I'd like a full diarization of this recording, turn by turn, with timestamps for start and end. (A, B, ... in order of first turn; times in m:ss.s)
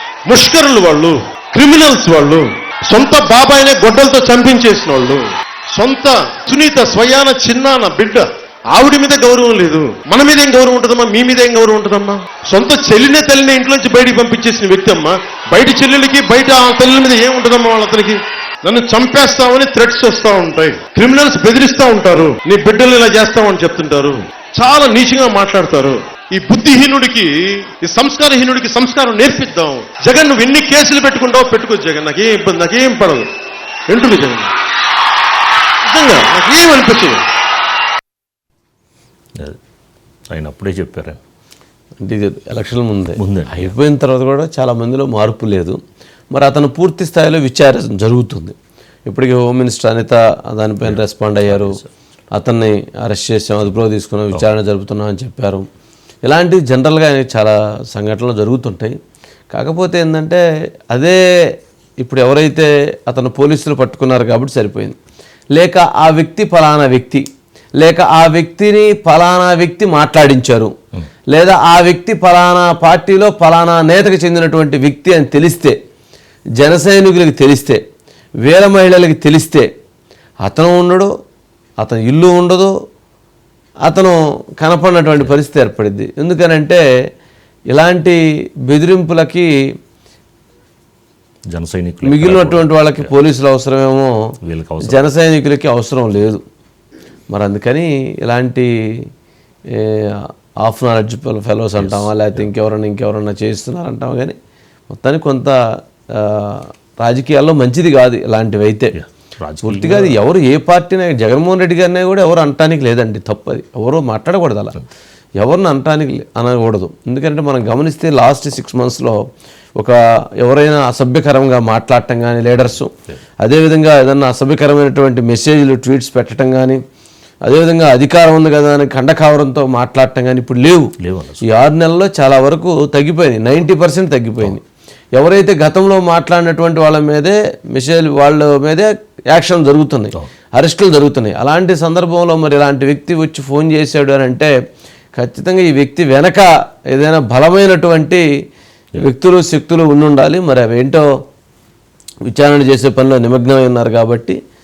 0:00.3-0:33.3 A
0:33.9-0:34.5 A
0:35.9-0:37.2 A
0:40.3-0:41.2 B
0:42.0-0:45.8 C
0:43.2-0:43.8 B
0:46.3-0:48.6 C
0:49.1-0:51.8 C
0:51.5-0:51.9 B
0:52.4-0:55.7 C
0:56.2-0:59.0 C
0:59.5-1:01.2 C
1:02.0-1:05.0 C
1:05.6-1:07.2 C
1:07.8-1:10.7 C
1:11.3-1:15.8 C
1:16.6-1:17.8 C
1:18.4-1:19.7 C
1:20.4-1:21.1 C
1:21.8-1:22.7 C
1:23.8-1:26.8 C
1:27.7-1:29.5 C
1:31.5-1:33.1 B
1:32.0-1:36.4 C
1:34.4-1:35.1 B
1:37.3-1:39.1 C
1:39.7-1:44.4 C
1:41.8-1:42.5 B
1:44.9-1:45.6 C
1:46.1-1:49.0 C
1:49.0-1:50.2 B
1:49.6-1:54.8 C
1:55.4-1:59.2 C
1:59.8-2:06.8 C
2:07.4-2:14.6 C
2:11.0-2:11.4 B
2:15.2-2:24.5 C
2:25.2-2:28.2 C
2:29.0-2:31.1 C
2:32.3-2:34.4 C